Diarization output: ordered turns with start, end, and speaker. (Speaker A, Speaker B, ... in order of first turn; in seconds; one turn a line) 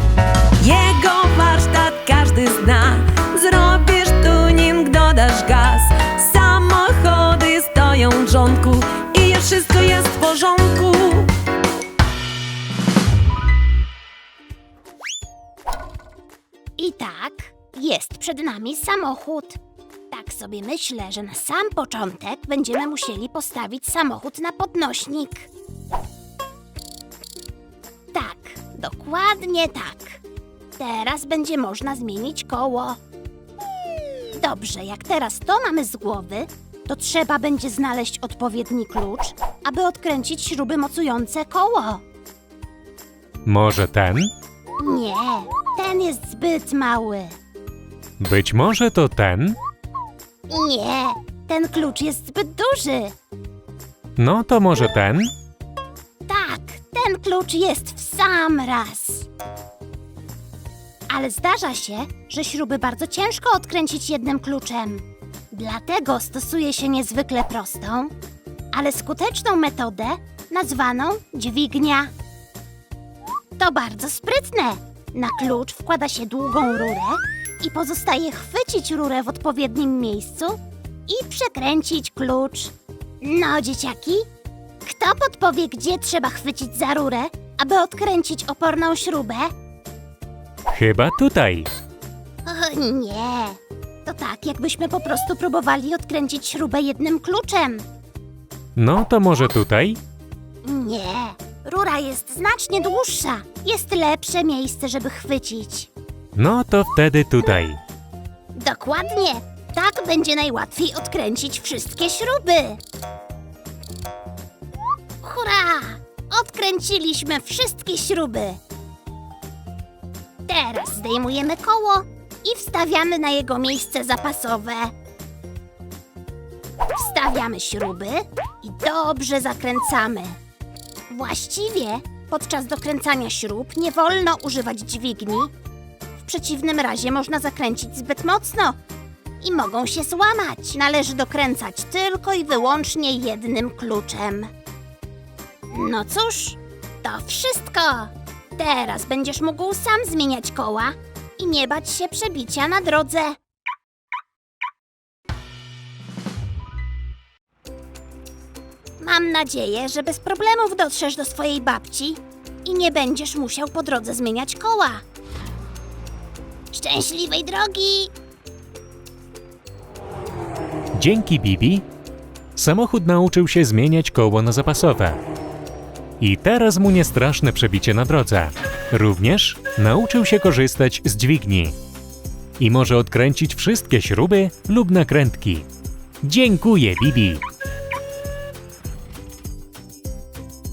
Speaker A: 0.6-11.3
Speaker B: 16.8-19.6
Speaker B: 20.1-25.5
Speaker B: 28.1-30.2
Speaker B: 30.8-33.0
Speaker B: 34.4-42.0
Speaker C: 43.4-44.3
Speaker B: 44.8-47.4
Speaker C: 48.2-49.6
Speaker B: 50.5-53.1
Speaker C: 54.2-55.3
Speaker B: 56.3-59.3
Speaker B: 61.1-68.1
Speaker B: 68.7-72.1
Speaker B: 73.6-84.3
Speaker B: 84.8-89.5
Speaker C: 90.7-91.7
Speaker B: 92.5-97.9
Speaker C: 98.8-100.0
Speaker B: 100.6-105.9
Speaker C: 106.3-107.8
Speaker B: 108.5-112.8
Speaker B: 115.2-118.6
Speaker B: 120.5-124.9
Speaker B: 127.0-130.4
Speaker B: 131.1-135.5
Speaker B: 136.2-138.8
Speaker B: 139.4-144.5
Speaker B: 145.7-153.4
Speaker B: 159.0-165.0
Speaker B: 166.7-168.1
Speaker C: 170.9-171.8
Speaker C: 172.6-175.2
Speaker C: 176.2-181.8
Speaker C: 182.6-185.7
Speaker C: 186.2-187.4